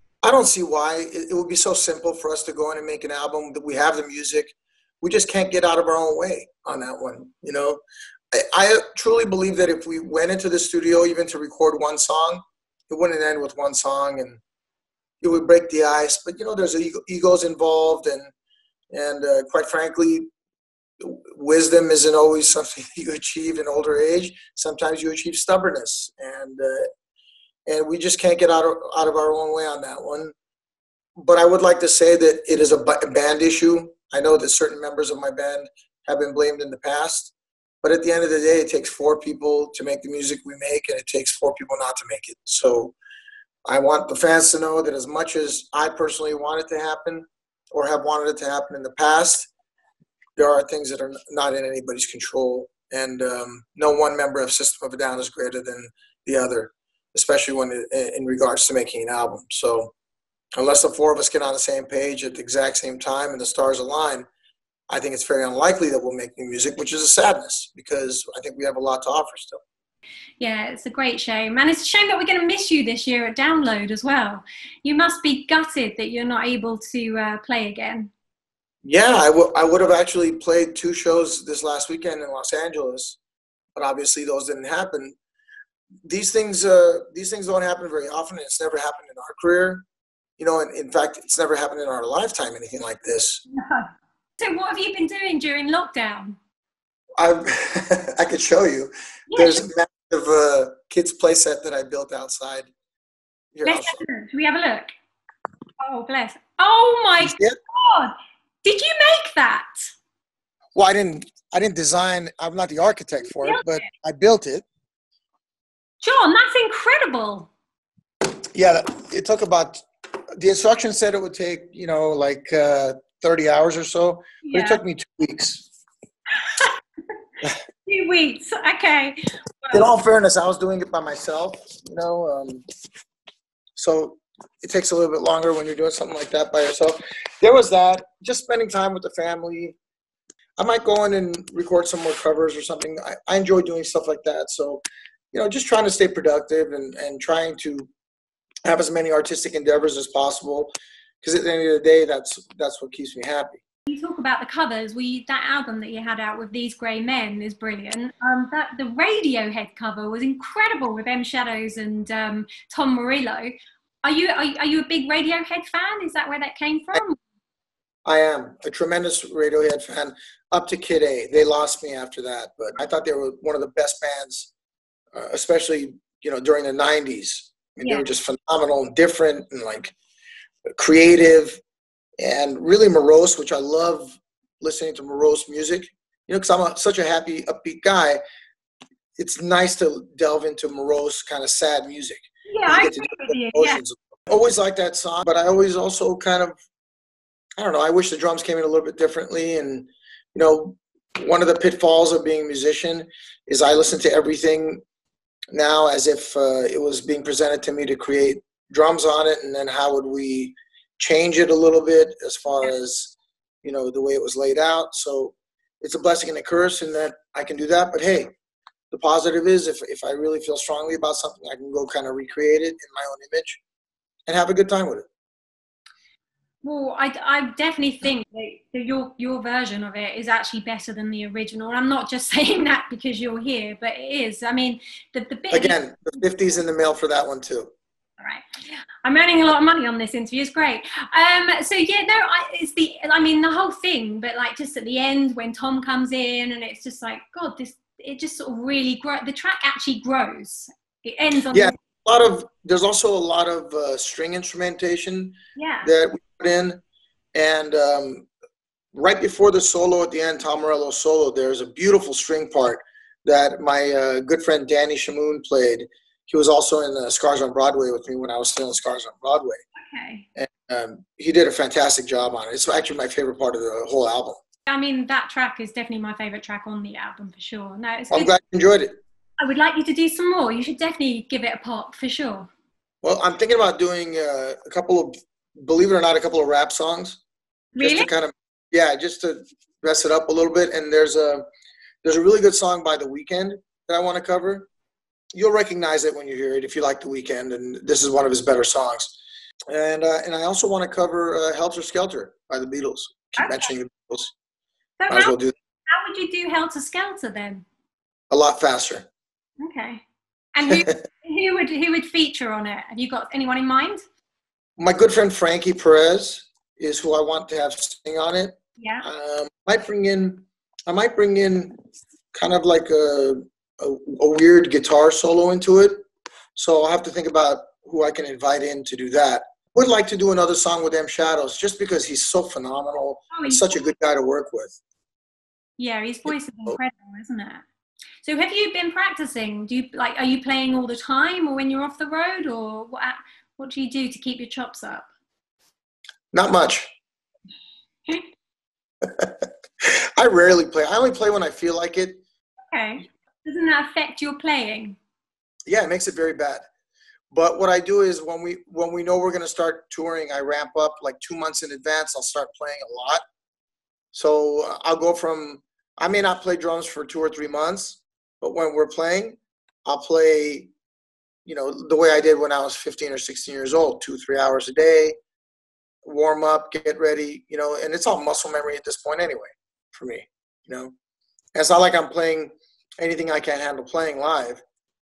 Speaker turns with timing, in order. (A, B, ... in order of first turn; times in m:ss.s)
0:00.2-0:07.8 A
0:08.3-0:14.4 A
0:15.2-0:18.3 A
0:18.9-0:20.3 A
0:21.0-0:26.9 A
0:27.6-0:30.3 A
0:31.2-0:42.9 A
0:43.6-0:49.5 A
0:50.4-0:59.9 A
1:00.6-1:04.3 A
1:04.9-1:09.6 A
1:10.4-1:18.1 B
1:18.8-1:23.2 A
1:23.7-1:25.2 A
1:26.0-1:29.8 A
1:30.4-1:33.4 A
1:33.5-1:33.9 B
1:34.4-1:36.4 B
1:37.2-1:42.7 A
1:39.3-1:39.6 B
1:43.5-1:44.0 A
1:43.6-1:44.9 B
1:45.8-1:49.7 B
1:47.2-1:47.6 A
1:50.7-1:54.6 A
1:53.3-1:53.8 B
1:56.0-1:57.5 B
1:58.5-1:59.8 A
2:00.4-2:05.7 A
2:04.4-2:04.8 B
2:07.8-2:09.9 B
2:09.7-2:12.6 A
2:13.8-2:19.8 A
2:20.6-2:27.9 A
2:28.6-2:33.6 A
2:33.9-2:43.5 B
2:44.0-2:47.2 B
2:48.0-2:54.5 A
2:55.1-2:59.9 A
2:57.8-2:58.1 B
3:00.8-3:01.6 A
3:02.2-3:08.2 A
3:09.2-3:16.6 A
3:12.5-3:13.8 B
3:17.6-3:24.8 A
3:25.5-3:38.3 A
3:38.9-3:43.6 A
3:44.3-3:45.1 A
3:46.6-3:55.8 B
3:55.5-3:57.7 A
3:58.2-3:58.4 B
3:59.0-4:11.7 B
4:11.5-4:16.8 A
4:15.6-4:15.9 B
4:17.3-4:18.3 A
4:18.9-4:29.6 A
4:29.8-4:30.2 B
4:30.4-4:34.4 A
4:34.7-4:38.3 B
4:38.1-4:39.0 A
4:39.4-4:42.5 B
4:43.0-4:47.2 A
4:47.8-4:48.1 B
4:47.8-4:51.4 A
4:52.0-4:54.7 A
4:55.3-4:59.2 A
4:59.7-5:04.3 A
5:03.4-5:03.7 B
5:05.0-5:05.4 B
5:05.1-5:05.5 A
5:05.9-5:07.6 B
5:08.3-5:09.1 A
5:09.6-5:10.0 B
5:10.5-5:14.0 B
5:10.7-5:10.9 A
5:14.8-5:21.7 A
5:18.8-5:19.0 B
5:22.3-5:26.0 A
5:26.5-5:34.8 A
5:33.3-5:33.8 B
5:35.8-5:37.6 B
5:36.3-5:36.8 A
5:38.2-5:45.1 B
5:46.3-5:46.9 A
5:49.0-5:52.2 A
5:52.7-5:55.0 B
5:55.7-5:56.6 A
5:57.3-6:03.2 A
6:04.1-6:10.7 A
6:11.4-6:15.1 A
6:16.0-6:20.9 A
6:21.5-6:24.6 A